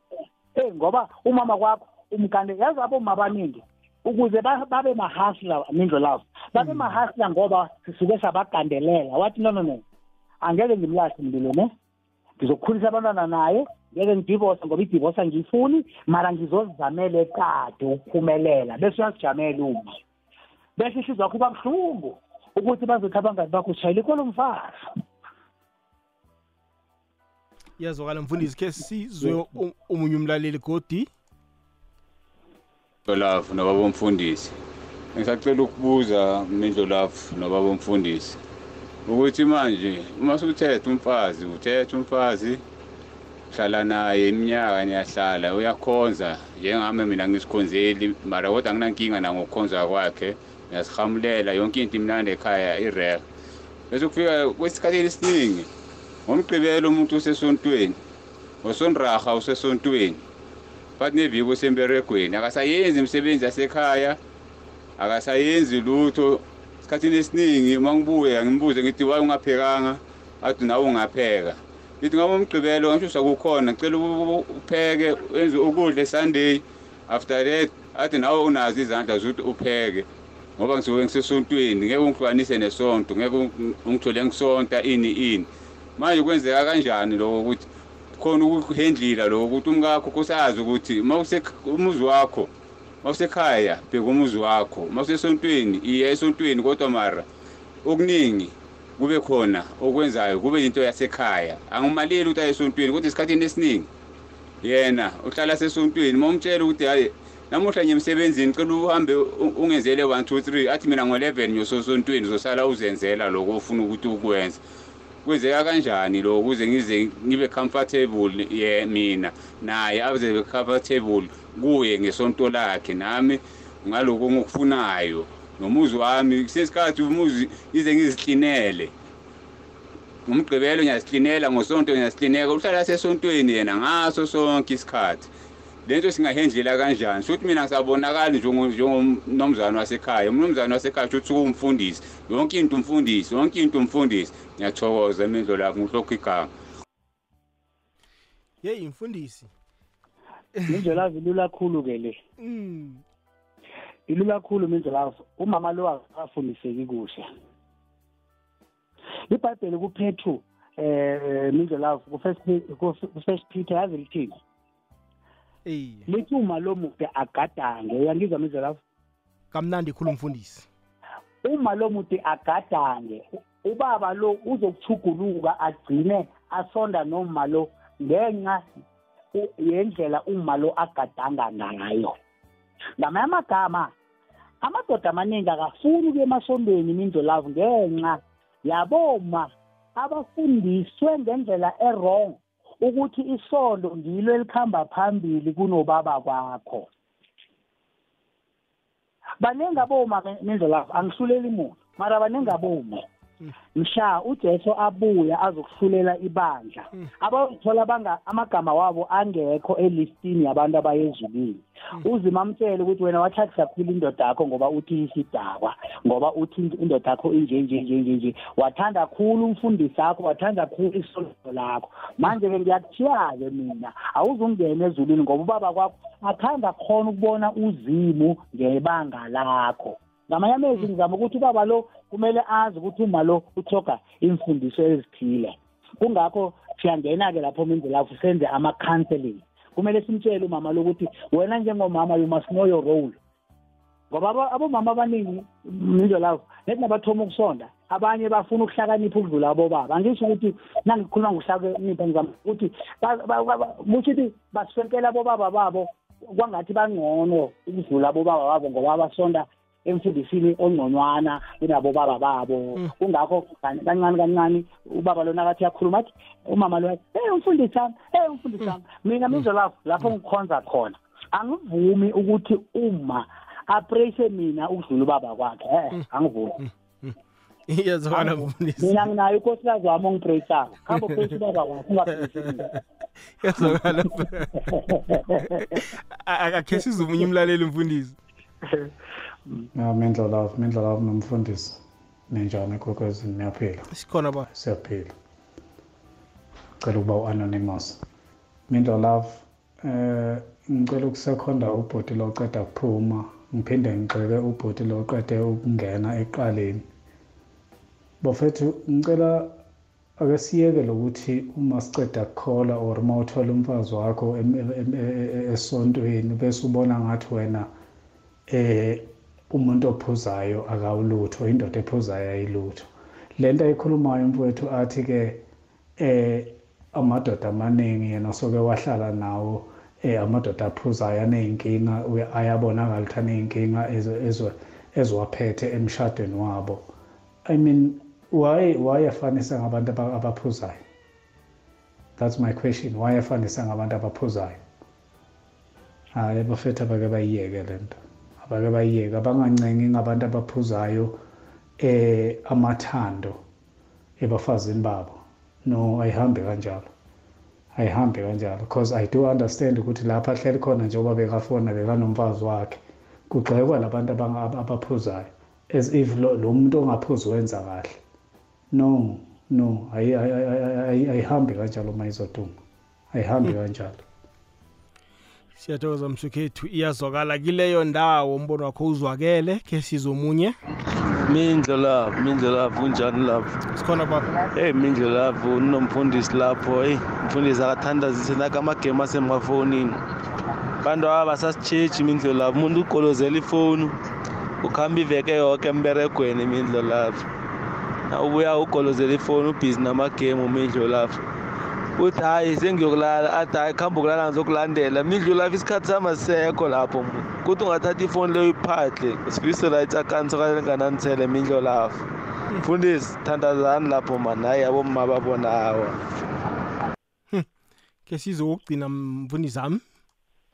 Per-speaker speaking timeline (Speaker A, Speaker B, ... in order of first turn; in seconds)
Speaker A: 0.5-9.8, 10.4-11.7, 12.4-19.9, 20.8-24.9, 150.7-152.2, 154.1-157.3, 159.3-164.4, 166.1-168.8, 171.4-178.6, 179.3-182.1, 183.0-183.9, 184.6-196.9, 199.4-203.0, 203.8-243.2, 244.1-276.6, 278.1-282.7, 283.6-285.8
Speaker B: 6.6-7.0, 27.8-31.1, 148.6-149.5, 152.4-153.0, 165.7-166.1, 169.5-170.7, 277.7-279.1, 280.9-281.2, 283.4-284.7, 285.4-288.2, 293.9-294.5, 375.6-380.6, 383.7-384.3, 418.1-419.8
Speaker C: 33.1-34.5, 35.1-38.4, 39.0-42.6, 43.5-53.2, 53.9-55.7, 56.3-58.0, 58.6-60.2, 61.0-64.2, 65.0-80.1, 80.6-87.6, 88.2-92.5, 93.0-97.2, 97.8-103.9, 104.6-114.6, 115.2-128.9, 130.3-135.3, 135.8-146.5
Speaker D: 289.7-293.9, 294.5-295.1, 296.8-298.0, 298.7-306.8, 308.2-309.6, 310.2-317.7, 318.5-325.4, 326.0-336.9, 337.5-340.8, 342.2-344.6, 346.1-351.2, 351.8-353.4, 354.2-356.9, 357.8-368.0, 368.7-372.6, 373.1-374.0
Speaker E: 381.2-383.6, 384.5-390.0, 390.8-393.9, 394.6-397.2, 398.1-401.2, 402.0-412.0, 412.6-416.0